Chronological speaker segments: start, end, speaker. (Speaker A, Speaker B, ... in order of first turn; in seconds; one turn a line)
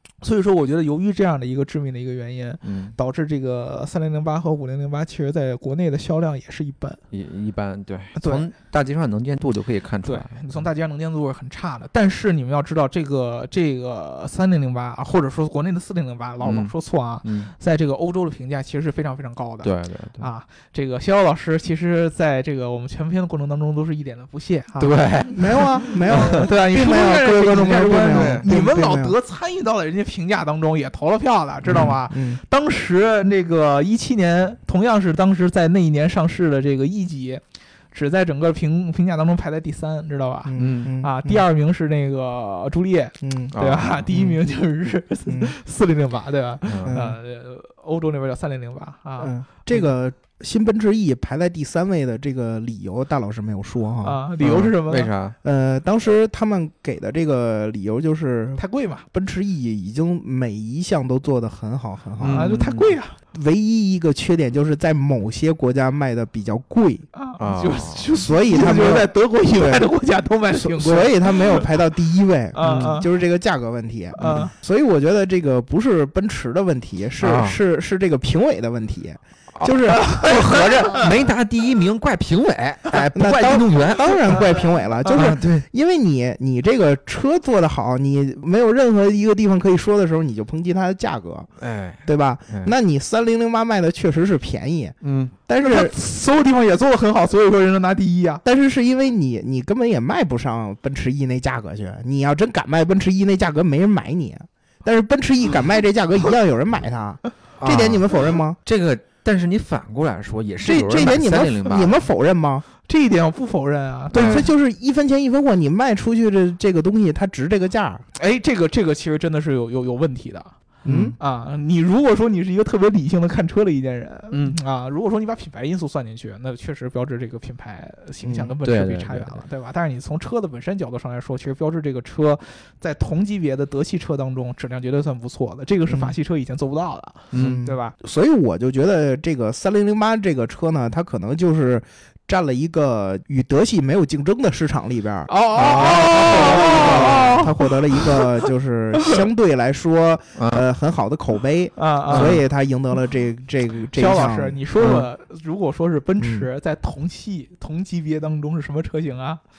Speaker A: 0.2-7.0
Speaker B: 2.6-3.0
Speaker B: 7.1-10.6
Speaker A: 8.2-8.5
Speaker A: 10.1-49.9
Speaker B: 16.4-16.7
Speaker B: 17.2-17.5
Speaker B: 19.6-20.3
Speaker B: 24.8-26.5
Speaker C: 25.3-29.1
Speaker B: 28.0-28.5
Speaker C: 31.8-32.4
Speaker C: 40.5-41.4
Speaker B: 40.6-40.9
Speaker C: 43.2-43.5
Speaker B: 43.5-44.0
Speaker C: 44.1-44.4
Speaker C: 45.3-45.5
Speaker B: 46.7-47.0
Speaker C: 46.9-47.2
Speaker C: 49.2-54.2
Speaker A: 54.0-55.1
Speaker B: 54.4-55.4
Speaker C: 55.4-58.6
Speaker A: 58.6-59.0
Speaker C: 59.1-62.5
Speaker B: 62.2-62.9
Speaker A: 62.3-63.2
Speaker C: 63.3-67.1
Speaker A: 67.1-71.7
Speaker B: 67.4-68.1
Speaker C: 68.2-69.8
Speaker C: 70.5-80.6
Speaker A: 72.5-73.1
Speaker B: 72.6-73.0
Speaker A: 74.2-74.5
Speaker B: 77.2-77.6
Speaker B: 79.6-84.5
Speaker A: 79.9-81.0
Speaker C: 83.0-91.5
Speaker B: 85.1-85.7
Speaker B: 91.6-92.7
Speaker C: 92.0-95.9
Speaker B: 95.0-95.3
Speaker A: 95.6-98.4
Speaker C: 98.5-108.6
Speaker B: 107.6-112.0
Speaker C: 110.7-112.7
Speaker A: 110.7-111.0
Speaker A: 112.9-114.5
Speaker C: 114.1-118.0
Speaker B: 114.1-114.5
Speaker A: 118.2-120.5
Speaker C: 120.8-121.2
Speaker B: 120.8-121.2
Speaker A: 121.2-137.9
Speaker B: 124.3-124.6
Speaker C: 128.2-128.5
Speaker B: 128.6-129.4
Speaker C: 135.9-136.2
Speaker B: 137.3-137.6
Speaker C: 137.3-145.3
Speaker A: 145.3-148.5
Speaker B: 145.6-147.4
Speaker C: 145.8-154.6
Speaker B: 150.4-150.6
Speaker A: 151.8-152.4
Speaker B: 152.1-152.4
Speaker A: 153.9-159.4
Speaker B: 154.8-155.1
Speaker C: 156.2-156.5